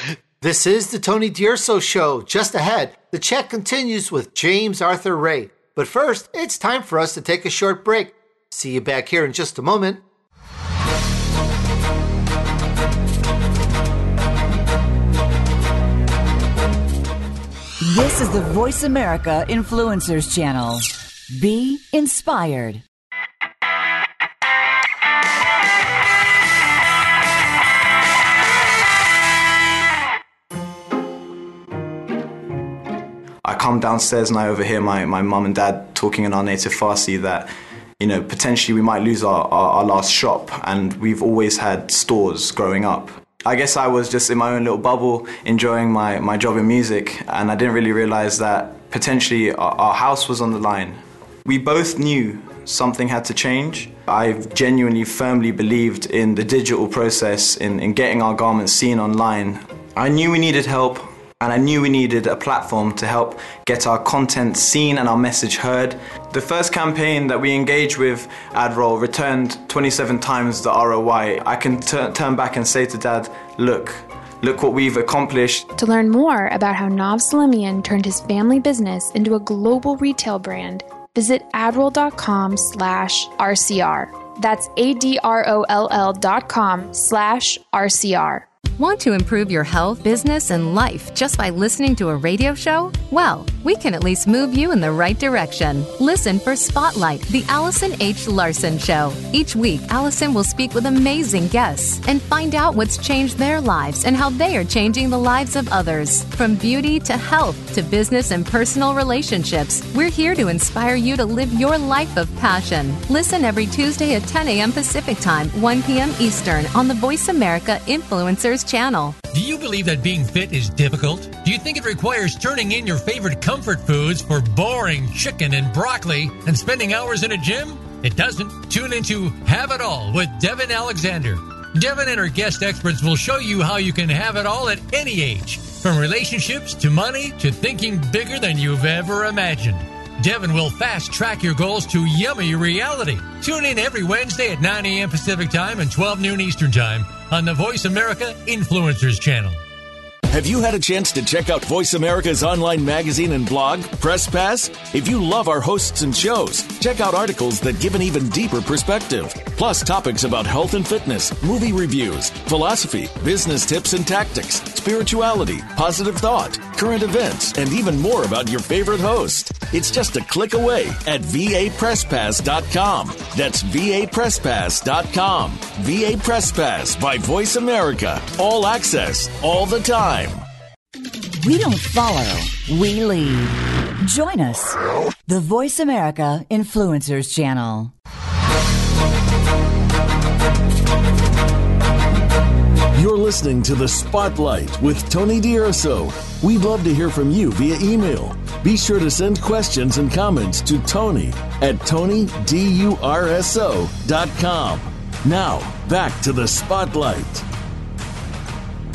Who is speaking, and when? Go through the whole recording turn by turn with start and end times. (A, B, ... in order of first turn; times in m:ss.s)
0:00.4-0:10.0 A
0:17.8-0:22.8 B
0:33.4-1:15.7 C
1:15.8-1:28.5 D
1:28.8-1:59.2 E
1:59.3-2:29.6 F
2:30.3-3:00.4 G
3:01.4-3:07.9 B
3:12.9-3:27.4 G